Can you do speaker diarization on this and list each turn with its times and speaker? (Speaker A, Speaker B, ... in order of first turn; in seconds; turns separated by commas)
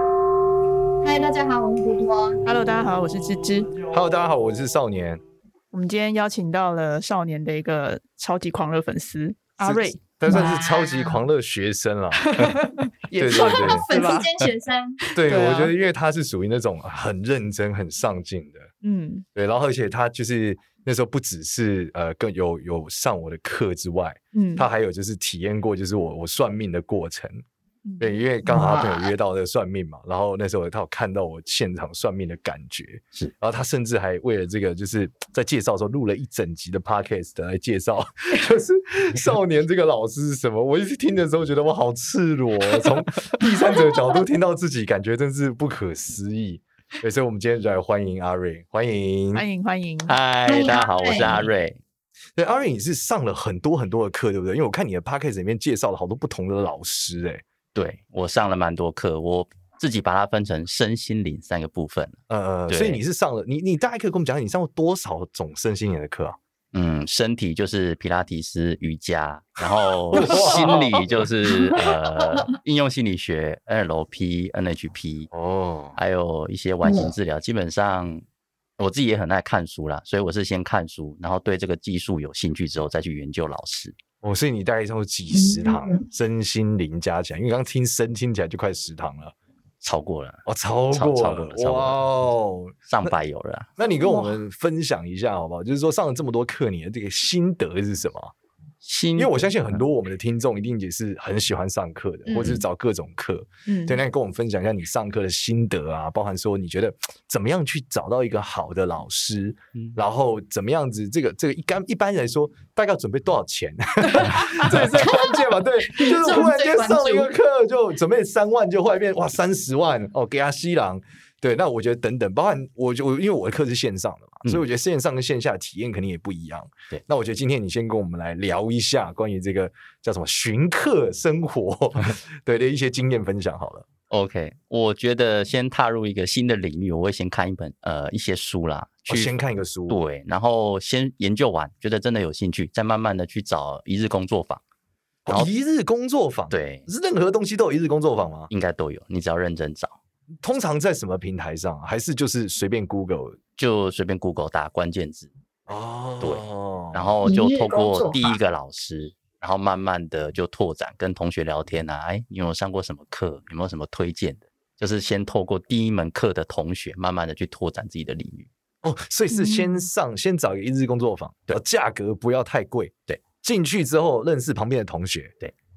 Speaker A: 1.0-2.4, Speaker B: 2.4-3.7, Speaker C: 3.9-5.2, Speaker B: 5.7-10.5, Speaker C: 9.6-13.9, Speaker A: 10.2-11.2, Speaker B: 12.1-14.3, Speaker A: 13.2-15.0, Speaker B: 15.0-15.7, Speaker C: 15.1-18.7, Speaker B: 18.8-19.2, Speaker C: 19.3-27.4, Speaker B: 24.3-24.7, Speaker B: 27.9-28.1, Speaker C: 28.0-49.4, Speaker A: 28.5-29.1, Speaker B: 49.3-50.1, Speaker D: 50.1-51.8, Speaker A: 50.5-51.5, Speaker C: 52.4-57.4, Speaker D: 57.7-62.2, Speaker C: 62.3-66.4, Speaker D: 62.7-63.0, Speaker D: 66.7-75.3, Speaker C: 70.1-71.3, Speaker A: 71.7-72.5, Speaker C: 75.3-76.0, Speaker D: 75.9-78.2, Speaker A: 76.8-77.1, Speaker D: 78.8-84.0, Speaker C: 84.2-89.3, Speaker A: 85.3-86.0, Speaker D: 89.8-92.0, Speaker C: 90.5-93.1, Speaker D: 92.9-93.7, Speaker C: 93.8-98.3, Speaker D: 98.8-99.8, Speaker C: 99.2-133.9, Speaker B: 102.2-102.6, Speaker B: 103.7-104.0, Speaker B: 114.1-115.1, Speaker A: 115.1-117.3, Speaker D: 134.1-139.3, Speaker C: 139.1-140.0, Speaker D: 139.9-144.6, Speaker C: 145.2-148.5, Speaker D: 146.5-146.8, Speaker D: 148.5-149.9, Speaker C: 150.4-153.4, Speaker D: 153.6-155.3, Speaker C: 155.7-157.1, Speaker D: 156.2-168.5, Speaker A: 157.2-158.4, Speaker C: 168.8-175.3, Speaker B: 169.3-169.8